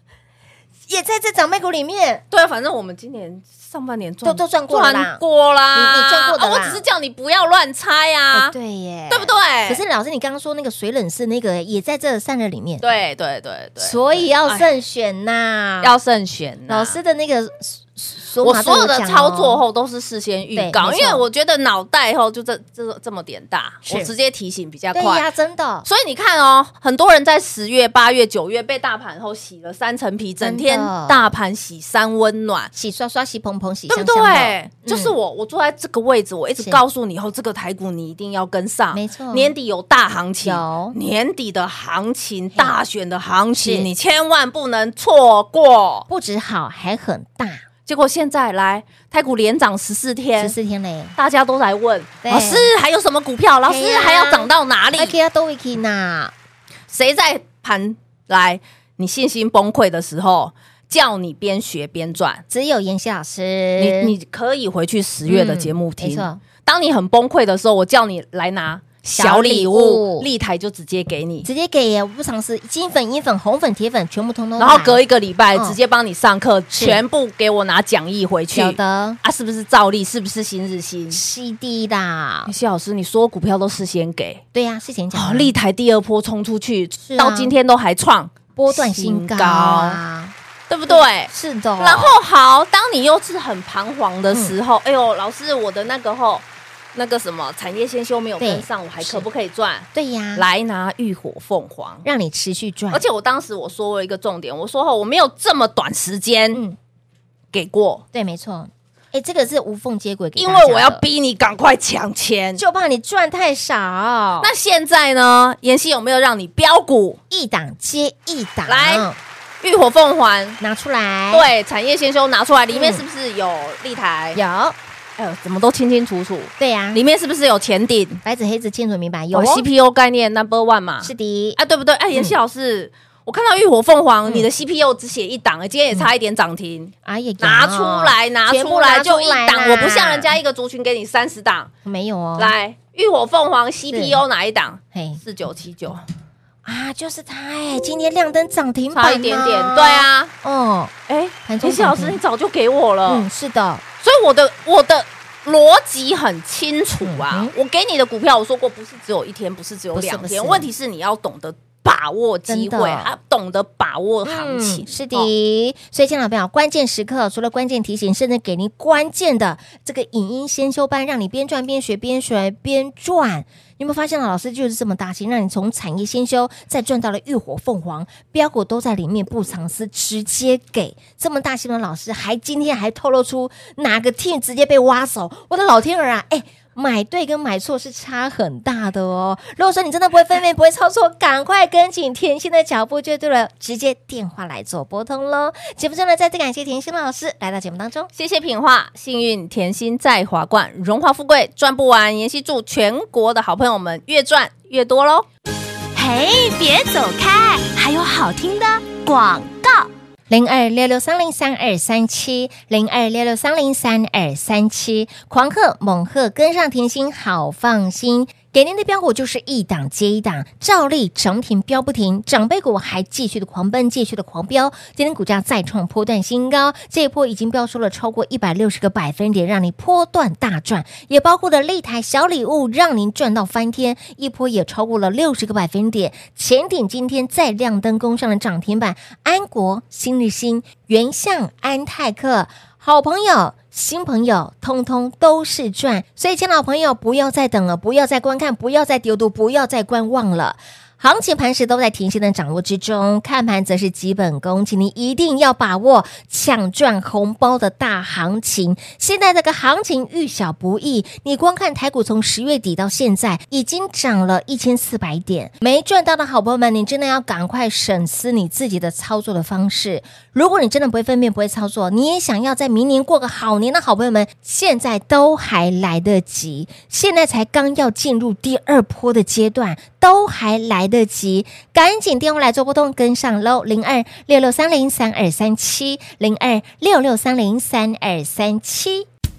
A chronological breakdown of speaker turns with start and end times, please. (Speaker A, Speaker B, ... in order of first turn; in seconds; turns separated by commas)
Speaker A: 0.9-2.2, Speaker B: 2.3-8.5, Speaker A: 4.2-5.2, Speaker A: 5.7-6.8, Speaker A: 8.3-12.8, Speaker B: 9.1-9.8, Speaker B: 12.8-14.7, Speaker A: 13.8-16.0, Speaker B: 15.8-17.0, Speaker A: 16.7-19.6, Speaker B: 18.4-25.2, Speaker A: 20.6-21.2, Speaker A: 23.9-24.1, Speaker A: 24.9-25.9, Speaker B: 25.9-32.7, Speaker A: 30.4-31.3, Speaker A: 32.7-35.1, Speaker B: 33.9-46.1, Speaker A: 38.9-39.5, Speaker A: 40.4-41.0, Speaker A: 43.6-43.9, Speaker A: 46.1-47.6, Speaker B: 47.9-50.5, Speaker A: 50.4-51.2, Speaker B: 51.2-55.2, Speaker A: 52.2-52.7, Speaker A: 53.7-56.3, Speaker B: 56.9-62.4, Speaker A: 62.5-64.2, Speaker B: 63.8-71.5, Speaker A: 65.3-66.4, Speaker A: 69.1-70.3, Speaker A: 71.4-75.0, Speaker B: 74.6-81.2, Speaker A: 76.7-77.0, Speaker A: 78.5-79.2, Speaker A: 81.1-82.5, Speaker B: 82.5-84.4, Speaker A: 84.5-85.5, Speaker B: 85.1-90.0, Speaker A: 87.0-87.5, Speaker A: 88.6-90.3, Speaker B: 90.7-102.0, Speaker A: 90.9-92.1, Speaker A: 98.4-99.3, Speaker A: 99.9-100.5, Speaker A: 102.0-103.0, Speaker B: 102.9-106.6, Speaker A: 106.5-106.8, Speaker B: 107.5-108.0, Speaker A: 108.1-111.0, Speaker B: 110.4-112.6, Speaker A: 112.6-114.5, Speaker B: 114.4-117.2, Speaker A: 117.3-119.2, Speaker B: 118.7-119.1, Speaker B: 119.6-120.6, Speaker A: 120.6-121.5, Speaker B: 121.3-124.4, Speaker A: 122.7-123.0, Speaker A: 124.3-124.8, Speaker B: 125.2-128.2, Speaker A: 126.6-127.0, Speaker A: 128.2-129.7, Speaker B: 129.3-141.7, Speaker A: 131.0-131.6, Speaker A: 137.1-140.4, Speaker A: 141.8-142.5, Speaker B: 142.4-146.0, Speaker A: 143.9-144.2, Speaker A: 144.9-145.2, Speaker A: 146.7-150.9, Speaker B: 148.9-150.3, Speaker B: 151.1-153.3, Speaker A: 151.5-152.2, Speaker A: 153.1-153.8, Speaker B: 154.0-165.3, Speaker A: 157.0-157.5, Speaker A: 159.9-160.7, Speaker A: 162.5-163.1, Speaker A: 164.2-198.1, Speaker B: 198.2-205.3, Speaker C: 205.9-209.9, Speaker A: 210.3-289.1